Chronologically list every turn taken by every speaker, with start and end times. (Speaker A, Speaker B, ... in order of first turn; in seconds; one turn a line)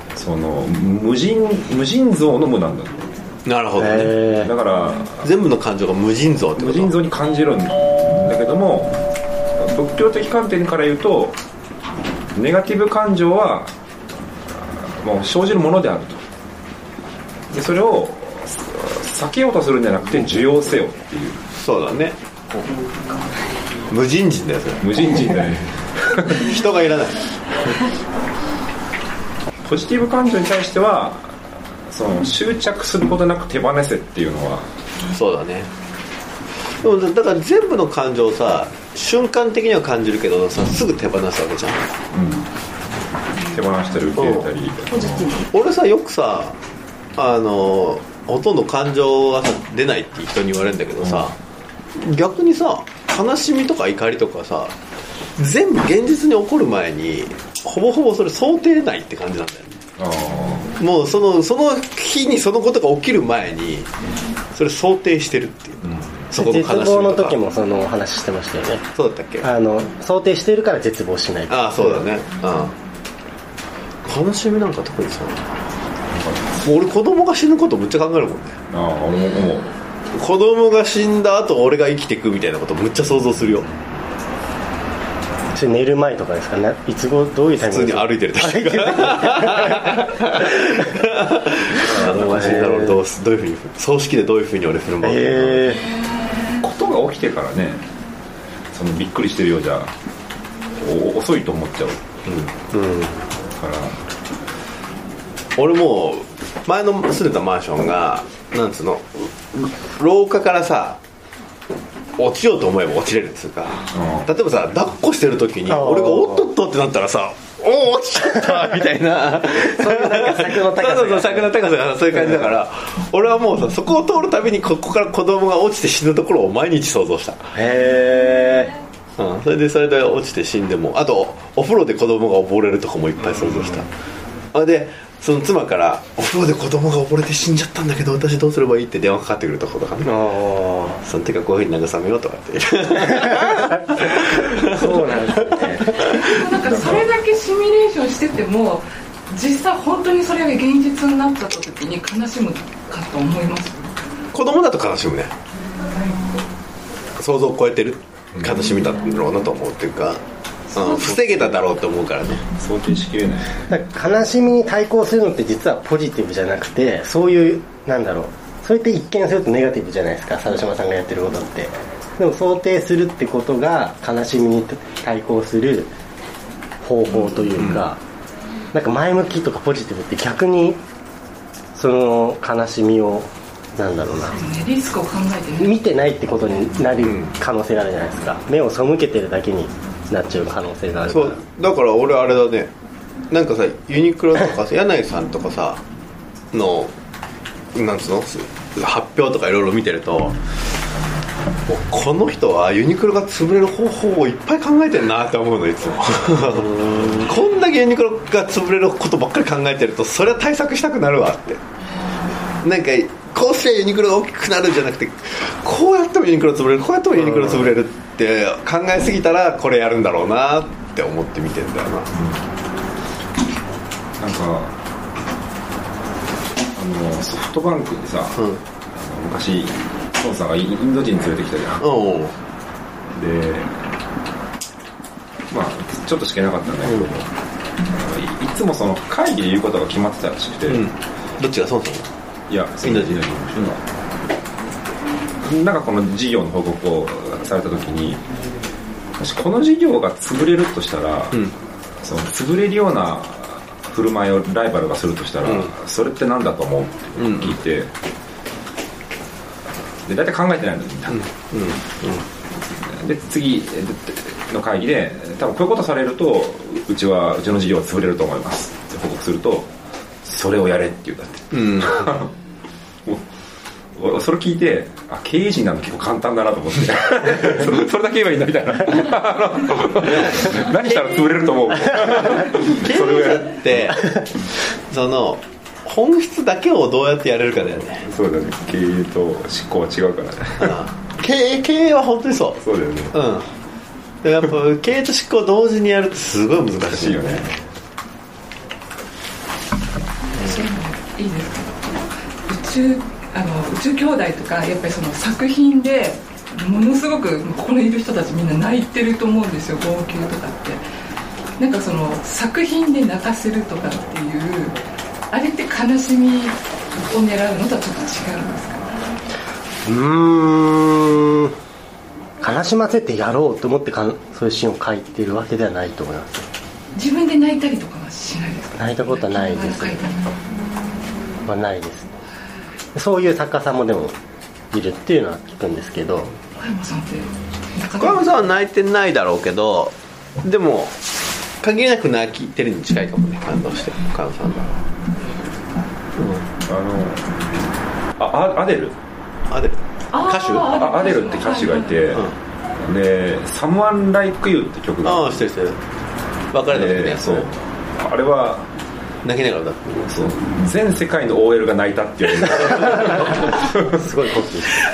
Speaker A: 0.2-3.2
Speaker B: 3.5-4.2
Speaker C: 3.8-4.5
Speaker A: 4.4-5.3
Speaker B: 5.2-7.0
Speaker A: 6.6-9.0
Speaker A: 9.6-11.4
Speaker A: 12.4-13.7
Speaker A: 14.6-16.2
Speaker A: 17.5-21.4
Speaker B: 21.6-22.7
Speaker B: 23.9-25.4
Speaker A: 24.8-26.4
Speaker B: 26.4-27.3
Speaker A: 29.6-34.7
Speaker B: 35.1-35.7
Speaker B: 36.8-42.0
Speaker A: 42.1-42.5
Speaker A: 43.5-45.4
Speaker B: 44.1-44.5
Speaker B: 45.4-46.6
Speaker B: 47.2-51.3
Speaker A: 51.0-51.3
Speaker B: 52.0-54.8
Speaker B: 55.4-59.8
Speaker A: 60.0-60.7
Speaker B: 60.8-63.9
Speaker B: 64.5-67.4
Speaker A: 65.8-66.3
Speaker C: 66.4-68.8
Speaker B: 69.0-69.5
Speaker C: 69.4-72.1
Speaker B: 71.5-72.8
Speaker B: 74.1-75.6
Speaker A: 76.1-76.7
Speaker B: 76.6-78.6
Speaker A: 78.7-79.7
Speaker B: 80.1-83.7
Speaker C: 85.5-90.2
Speaker B: 87.6-95.7
Speaker C: 91.8-93.0
Speaker C: 95.0-95.8
Speaker A: 96.6-97.8
Speaker A: 98.7-99.9
Speaker A: 100.8-102.0
Speaker B: 102.3-103.0
Speaker A: 103.5-104.0
Speaker B: 105.6-111.0
Speaker B: 112.2-127.5
Speaker A: 113.9-114.3
Speaker C: 115.7-116.5
Speaker C: 119.5-121.5
Speaker C: 122.1-122.5
Speaker C: 127.5-128.7
Speaker B: 129.2-133.9
Speaker B: 134.5-140.1
Speaker C: 140.0-141.0
Speaker B: 141.0-146.7
Speaker C: 144.7-146.0
Speaker D: 146.0-153.9
Speaker A: 146.6-147.0
Speaker B: 154.3-155.3
Speaker B: 157.2-160.2
Speaker B: 160.7-162.5
Speaker D: 160.8-161.4
Speaker A: 162.6-163.6
Speaker C: 163.7-175.9
Speaker C: 176.8-178.0
Speaker B: 177.6-177.8
Speaker C: 178.7-180.8
Speaker C: 181.8-184.4
Speaker D: 184.3-185.8
Speaker C: 185.6-191.4
Speaker B: 187.0-187.3
Speaker B: 191.1-192.7
Speaker B: 193.3-195.8
Speaker B: 196.5-196.9
Speaker B: 197.8-200.4
Speaker B: 201.7-211.6
Speaker B: 212.6-222.1
Speaker A: 217.3-217.6
Speaker A: 222.1-222.5
Speaker A: 224.2-224.8
Speaker A: 226.8-228.4
Speaker B: 228.4-228.6
Speaker A: 228.9-231.9
Speaker B: 231.8-232.4
Speaker A: 233.1-233.8
Speaker A: 235.5-237.3
Speaker B: 236.8-237.1
Speaker A: 237.9-240.9
Speaker B: 240.7-242.1
Speaker A: 242.5-243.8
Speaker B: 242.8-243.7
Speaker A: 245.4-248.2
Speaker A: 249.2-257.9
Speaker B: 255.4-255.7
Speaker B: 257.2-257.6
Speaker A: 260.1-261.2
Speaker B: 261.1-262.3
Speaker A: 262.7-269.7
Speaker A: 270.2-272.3
Speaker B: 271.5-272.3
Speaker A: 274.0-283.9
Speaker B: 280.0-288.1
Speaker A: 288.1-290.8
Speaker B: 290.6-292.6
Speaker A: 292.6-293.2
Speaker B: 293.1-293.5
Speaker B: 294.2-297.6
Speaker A: 296.9-297.5
Speaker D: 300.4-310.8
Speaker D: 311.6-314.8
Speaker D: 315.3-318.9
Speaker C: 319.9-321.5
Speaker C: 322.4-326.5
Speaker D: 326.9-330.4
Speaker C: 328.8-330.1
Speaker C: 331.4-332.1
Speaker C: 332.9-334.1
Speaker C: 334.7-336.3
Speaker D: 336.6-338.3
Speaker B: 338.0-341.0
Speaker B: 341.6-344.8
Speaker B: 346.2-346.4
Speaker A: 346.6-347.4
Speaker A: 348.2-349.0
Speaker B: 349.5-350.8
Speaker D: 350.1-352.1
Speaker A: 350.7-355.5
Speaker B: 355.0-355.8
Speaker B: 356.5-357.5
Speaker A: 356.7-358.7
Speaker B: 359.2-360.4
Speaker A: 360.1-364.0
Speaker C: 363.1-364.8